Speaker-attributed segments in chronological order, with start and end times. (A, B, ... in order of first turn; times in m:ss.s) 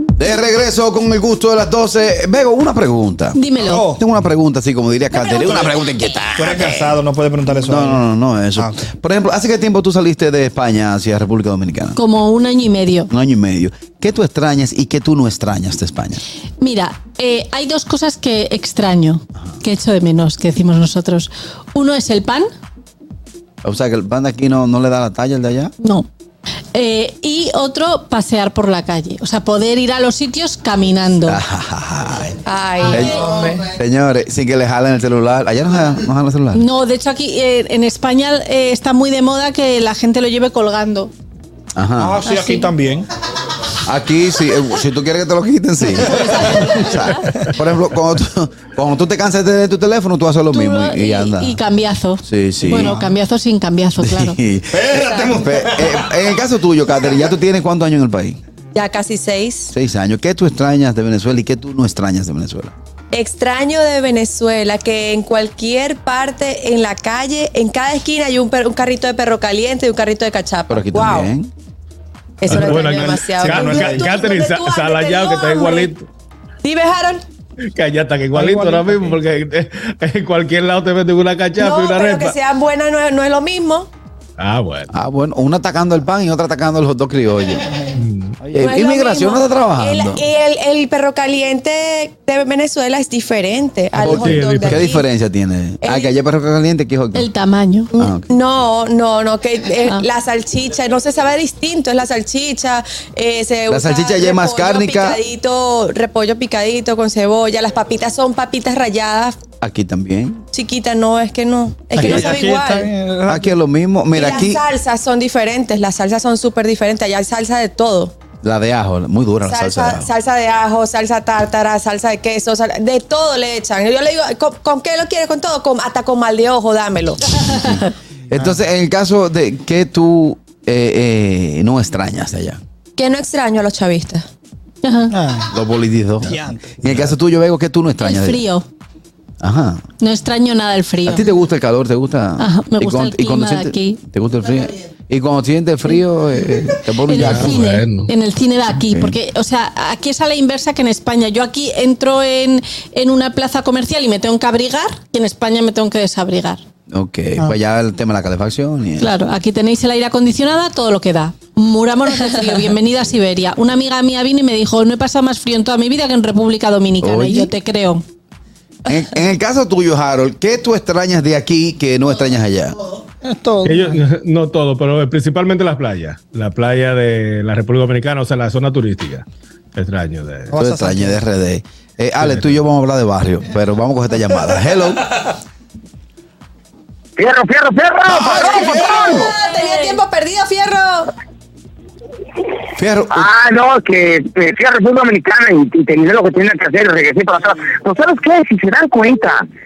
0:00.2-0:03.4 A
0:03.3-0:03.9 B
0:03.6-0:04.0 C
0:04.0-0:07.0 A
0:05.5-0:05.7 C
0:06.4-0:08.0 C
0:07.6-0:12.0 A
0:12.0-0:13.1 B
0:13.1-0:16.2 A
0:16.6-0:22.5 B
0:23.6-0:25.7 A
0:25.8-0:26.1 B
0:26.7-0:31.4 B
0:31.3-0:36.6 A
0:32.4-0:33.7 D
0:32.8-0:33.2 B
0:36.5-0:41.1 B
0:41.8-0:42.2 A
0:42.0-0:43.0 C
0:42.2-0:42.7 B
0:43.8-0:51.6 A
0:45.9-0:47.5 B
0:50.5-0:54.4 B
0:52.2-0:53.0 A
0:52.6-0:53.1 C
0:54.0-0:58.4 A
0:54.7-0:56.0 C
0:58.7-0:59.8 D
0:59.7-1:02.7 A
1:03.1-1:11.3 D
1:10.7-1:11.5 A
1:12.4-1:16.0 D
1:12.5-1:13.7 E
1:13.2-1:14.3 C
1:13.8-1:14.1 B
1:14.3-1:16.0 E
1:16.6-1:17.2 D
1:17.8-1:22.3 E
1:18.3-1:19.2 C
1:21.6-1:23.9 D
1:24.4-1:24.9 E
1:24.9-1:27.8 A
1:28.0-1:28.3 E
1:28.5-1:30.2 A
1:28.5-1:35.1 D
1:34.0-1:34.8 E
1:34.0-1:37.3 A
1:35.8-1:36.1 D
1:37.2-1:37.9 B
1:37.9-1:49.4 D
1:38.0-1:38.3 A
1:43.7-1:45.2 A
1:49.6-1:50.4 A
1:50.5-1:52.9 D
1:51.9-1:53.6 C
1:53.3-1:54.6 A
1:54.1-1:58.1 D
1:58.4-2:00.1 A
1:59.4-2:07.4 D
2:07.4-2:12.6 A
2:13.0-2:14.3 D
2:14.8-2:15.2 B
2:15.2-2:15.4 C
2:15.5-2:18.4 A
2:18.0-2:18.7 B
2:19.4-2:19.8 A
2:20.0-2:21.2 B
2:21.1-2:27.6 A
2:22.4-2:24.0 B
2:27.0-2:36.6 B
2:27.2-2:28.1 E
2:28.9-2:29.2 A
2:36.9-2:39.1 A
2:39.0-2:48.0 B
2:47.0-2:47.5 A
2:48.9-2:52.8 A
2:53.2-2:53.8 C
2:53.6-2:59.2 E
2:59.8-3:00.5 E
3:00.5-3:01.2 C
3:00.5-3:05.3 A
3:02.2-3:02.5 E
3:07.2-3:09.3 F
3:08.3-3:11.1 D
3:09.1-3:10.0 B
3:12.8-3:13.3 A
3:13.1-3:19.4 F